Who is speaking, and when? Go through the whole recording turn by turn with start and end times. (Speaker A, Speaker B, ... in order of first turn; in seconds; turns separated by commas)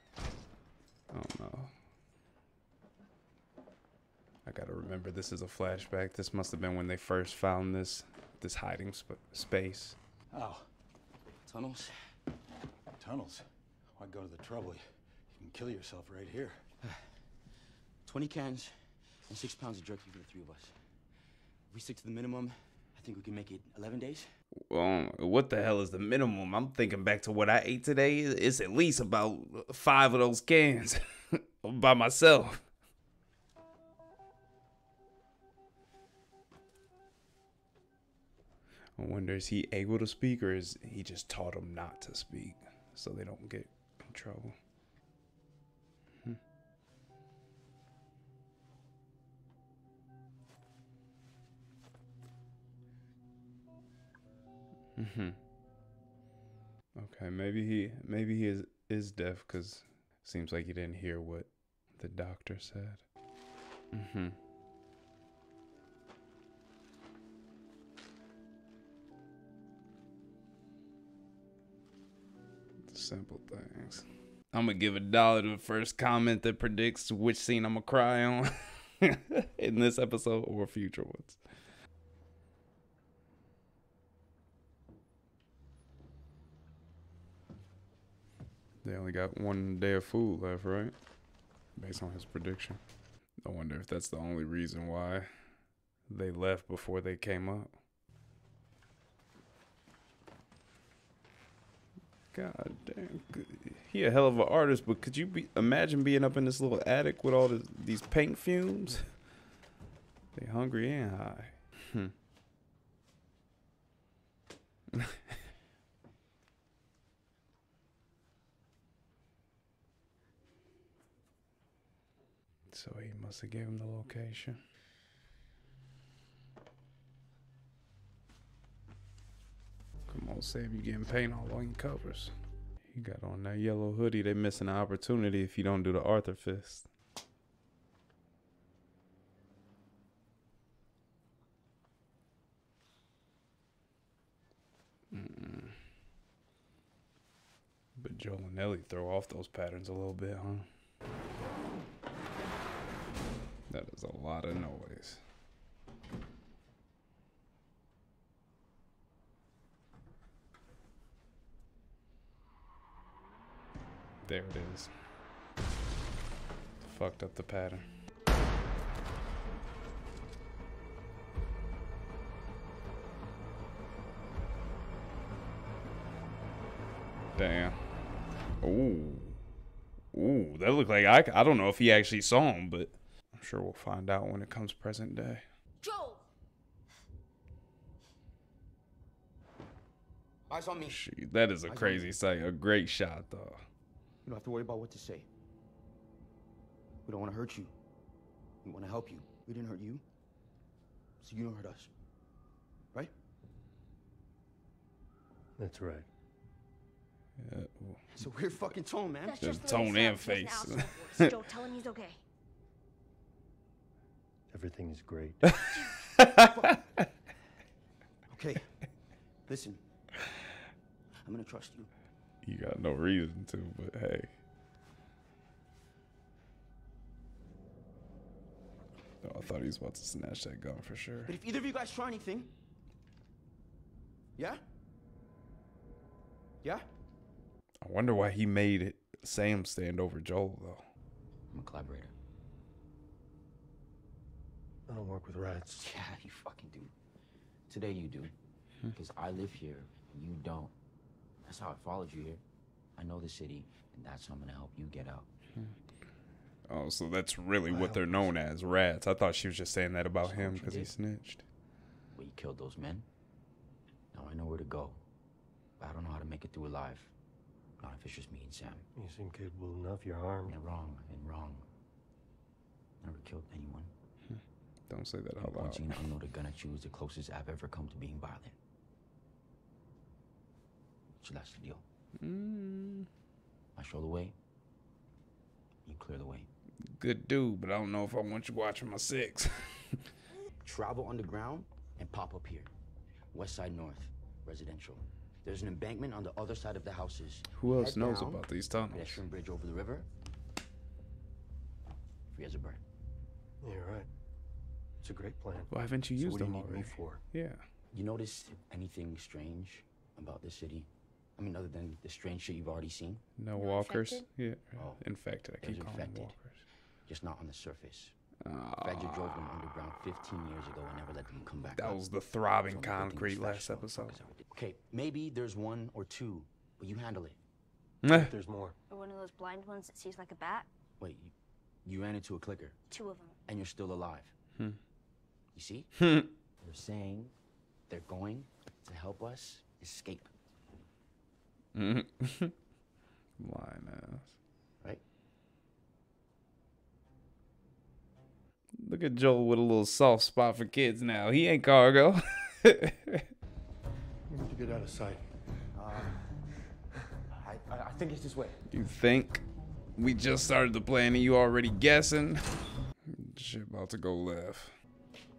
Speaker A: 1.1-1.7, Speaker A: 4.4-10.0, Speaker B: 10.3-10.7, Speaker C: 11.4-12.0, Speaker B: 13.0-16.6, Speaker C: 16.8-17.1, Speaker C: 18.0-20.8, Speaker C: 21.7-24.3, Speaker A: 24.7-32.6, Speaker A: 39.0-44.5, Speaker A: 55.0-55.4, Speaker A: 57.0-63.0, Speaker A: 63.9-64.4, Speaker A: 72.9-81.4, Speaker A: 88.8-90.9, Speaker A: 91.8-92.8, Speaker A: 93.4-95.3, Speaker A: 96.1-97.7, Speaker A: 102.3-109.1, Speaker A: 110.3-112.1, Speaker A: 114.9-115.2, Speaker A: 122.7-124.6, Speaker A: 130.1-132.3, Speaker A: 132.9-136.9, Speaker A: 145.1-145.8, Speaker A: 147.9-150.7, Speaker A: 153.7-155.2, Speaker A: 164.2-164.9, Speaker A: 166.8-167.9, Speaker A: 177.4-177.8, Speaker A: 178.6-179.4, Speaker A: 180.1-185.4, Speaker D: 185.8-186.2, Speaker C: 190.5-191.0, Speaker A: 190.8-193.6, Speaker C: 191.7-192.1, Speaker C: 194.2-195.3, Speaker C: 197.1-197.7, Speaker C: 198.6-200.0, Speaker C: 201.2-201.9, Speaker E: 205.6-206.1, Speaker A: 207.4-208.0, Speaker C: 208.1-209.5, Speaker D: 209.2-212.2, Speaker A: 209.4-211.3, Speaker E: 214.5-215.5, Speaker A: 215.5-216.5, Speaker D: 215.6-216.0, Speaker C: 216.3-216.8, Speaker C: 218.3-218.7, Speaker C: 219.4-219.8, Speaker C: 221.2-221.9, Speaker A: 222.4-224.3, Speaker A: 229.2-231.3, Speaker C: 231.2-232.5, Speaker C: 234.3-234.6, Speaker C: 236.6-236.9, Speaker A: 237.8-240.8, Speaker C: 241.5-242.1, Speaker E: 244.9-245.9, Speaker C: 245.7-246.9, Speaker C: 247.7-248.3, Speaker C: 248.9-250.7, Speaker C: 251.4-252.4, Speaker C: 252.9-255.3, Speaker A: 256.7-261.4, Speaker E: 257.7-258.3, Speaker C: 260.2-260.9, Speaker C: 262.1-263.1, Speaker C: 264.1-265.0, Speaker C: 265.8-267.1, Speaker C: 267.8-268.9, Speaker E: 268.9-270.6, Speaker C: 270.5-271.7, Speaker C: 273.0-273.9, Speaker A: 274.3-276.1, Speaker C: 275.4-278.6, Speaker C: 281.2-281.8, Speaker A: 282.2-283.1, Speaker C: 283.7-284.4, Speaker C: 285.8-286.5, Speaker A: 287.0-290.0, Speaker C: 290.6-292.7, Speaker C: 293.3-300.1, Speaker A: 297.5-299.2, Speaker C: 302.3-302.8, Speaker E: 303.6-304.1, Speaker E: 305.0-307.2, Speaker A: 305.7-307.6, Speaker C: 307.9-313.2, Speaker A: 313.4-316.6, Speaker D: 313.5-314.2, Speaker C: 314.8-315.0, Speaker C: 315.6-316.3, Speaker C: 317.0-318.1, Speaker A: 318.4-319.4, Speaker C: 318.8-322.0, Speaker A: 321.8-324.2, Speaker C: 322.7-327.4, Speaker A: 328.0-328.3, Speaker E: 328.1-328.8, Speaker D: 328.9-330.7, Speaker C: 331.0-331.3, Speaker C: 331.8-332.8, Speaker D: 332.9-333.4, Speaker C: 333.5-334.3, Speaker C: 335.5-335.9, Speaker A: 336.0-336.3, Speaker C: 336.6-337.3, Speaker C: 337.9-340.3, Speaker A: 341.7-342.5, Speaker A: 343.4-344.3, Speaker A: 348.8-353.3, Speaker E: 354.3-355.2, Speaker C: 355.7-356.2, Speaker C: 357.3-358.6, Speaker A: 358.7-359.4, Speaker A: 360.0-362.5, Speaker A: 363.1-364.7